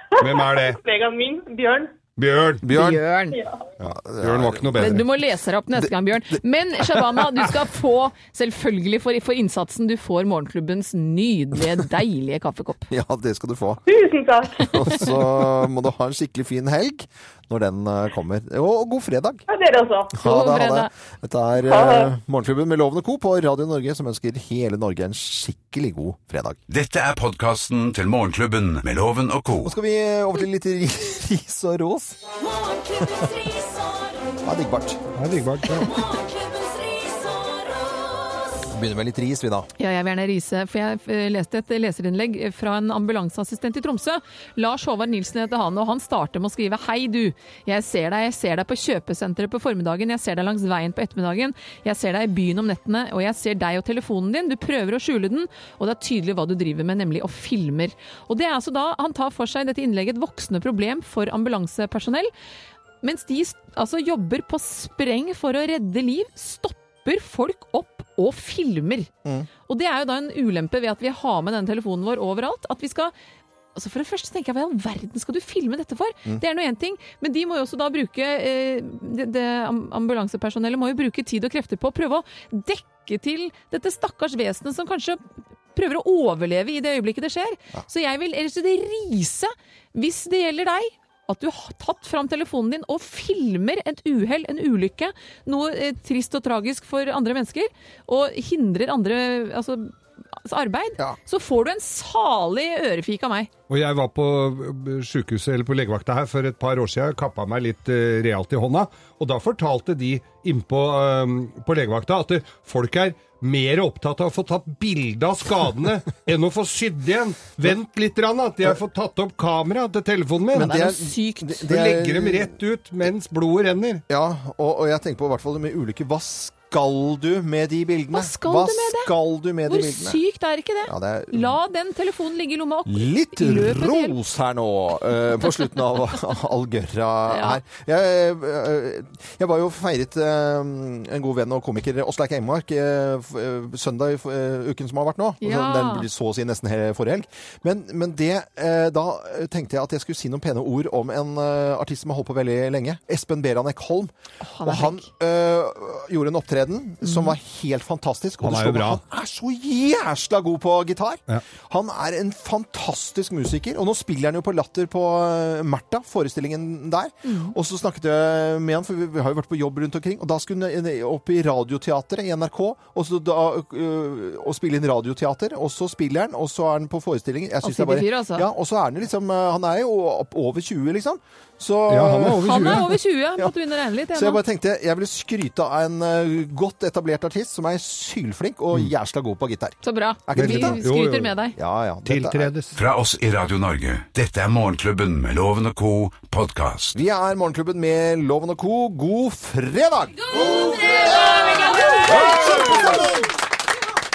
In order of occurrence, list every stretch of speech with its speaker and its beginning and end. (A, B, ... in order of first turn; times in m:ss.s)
0:00.2-0:01.9 A
0:00.2-0:00.8 B
0:02.2-0:02.7 B
0:02.6-0:03.0 C
0:02.7-0:03.4 D
0:03.3-0:03.6 A
0:03.8-0:05.1 B
0:03.8-0:05.0 C
0:04.8-0:12.9 D
0:12.9-0:13.8 C
0:13.9-0:15.0 A
0:14.6-0:19.4 C
0:19.5-0:20.2 A
0:20.2-0:26.6 C
0:20.2-0:20.9 D
0:21.6-0:22.1 A
0:26.7-0:29.7 E
0:29.6-0:32.2 C
0:32.3-0:34.4 F
0:34.4-0:35.0 C
0:35.2-0:35.9 B
0:35.7-0:38.6 F
0:38.7-0:39.7 C
0:39.8-1:02.3 D
1:03.0-1:09.1 D
1:09.7-1:13.1 D
1:13.8-1:25.2 D
1:25.7-1:43.5 D
1:43.7-2:00.8 B
2:00.5-2:02.5 C
2:00.6-2:01.6 D
2:01.7-2:04.0 B
2:04.1-2:10.2 C
2:08.1-2:09.1 D
2:09.6-2:14.2 D
2:10.8-2:11.6 C
2:12.9-2:34.1 C
2:17.3-2:17.6 D
2:25.4-2:26.1 D
2:34.4-2:35.1 D
2:34.6-3:03.5 C
2:37.0-2:37.4 D
2:38.4-2:39.0 B
2:47.2-2:47.6 D
2:57.6-2:58.5 D
3:01.9-3:03.0 B
3:02.4-3:04.4 D
3:04.1-3:10.8 C
3:09.8-3:11.6 D
3:10.4-3:11.4 B
3:11.6-3:12.5 C
3:12.1-3:12.8 B
3:12.7-3:17.0 E
3:16.9-3:20.2 C
3:20.3-3:22.3 F
3:21.5-3:23.2 C
3:22.3-3:22.6 B